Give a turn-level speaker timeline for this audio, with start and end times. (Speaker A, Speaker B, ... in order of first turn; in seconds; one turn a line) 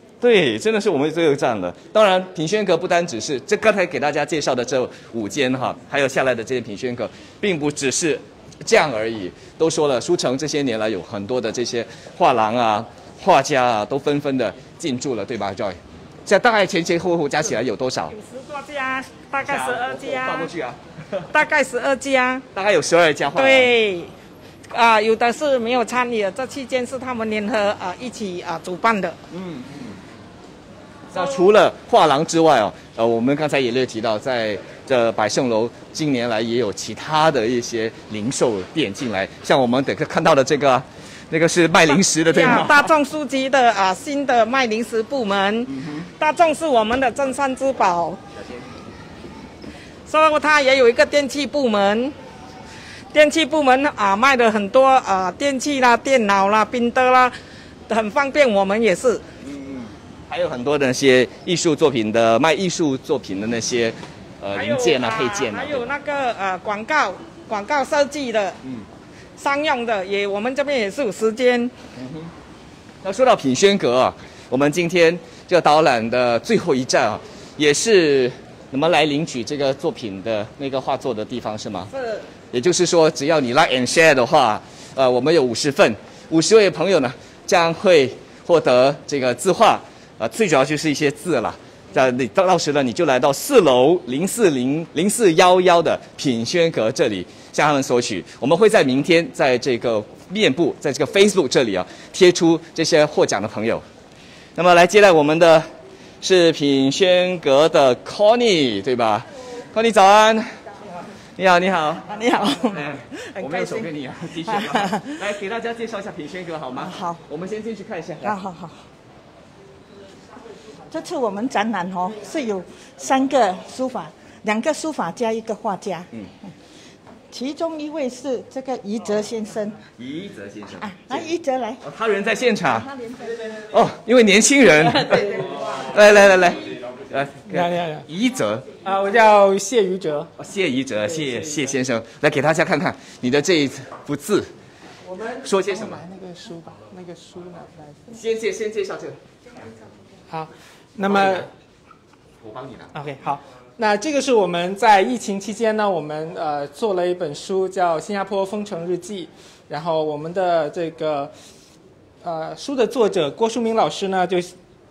Speaker A: 0.2-18.1
Speaker B: 18.1-20.5
Speaker A: 19.4-21.3
Speaker B: 21.3-22.4
Speaker A: 22.5-23.7
Speaker B: 23.4-24.1
Speaker B: 24.7-29.2
Speaker A: 29.3-30.0
Speaker A: 31.1-42.9
Speaker B: 42.3-48.2
Speaker A: 45.7-46.0
Speaker B: 50.1-52.1
Speaker B: 53.1-57.3
Speaker B: 57.9-59.2
Speaker A: 59.4-65.9
Speaker B: 64.5-68.6
Speaker B: 69.4-71.7
Speaker A: 72.0-72.3
Speaker A: 73.0-81.9
Speaker A: 82.5-103.8
Speaker A: 104.6-105.7
Speaker A: 106.2-110.6
Speaker A: 111.4-118.4
Speaker C: 112.1-115.3
Speaker C: 116.8-117.2
Speaker C: 118.2-118.9
Speaker C: 120.9-126.1
Speaker C: 127.3-129.8
Speaker A: 130.0-132.9
Speaker C: 130.8-131.8
Speaker A: 133.6-138.7
Speaker D: 137.5-138.1
Speaker D: 138.8-140.3
Speaker A: 140.4-144.5
Speaker A: 145.4-146.0
Speaker D: 146.0-147.7
Speaker A: 148.1-149.2
Speaker D: 150.3-151.5
Speaker A: 151.0-151.5
Speaker A: 152.4-152.9
Speaker D: 152.9-161.3
Speaker D: 162.2-164.5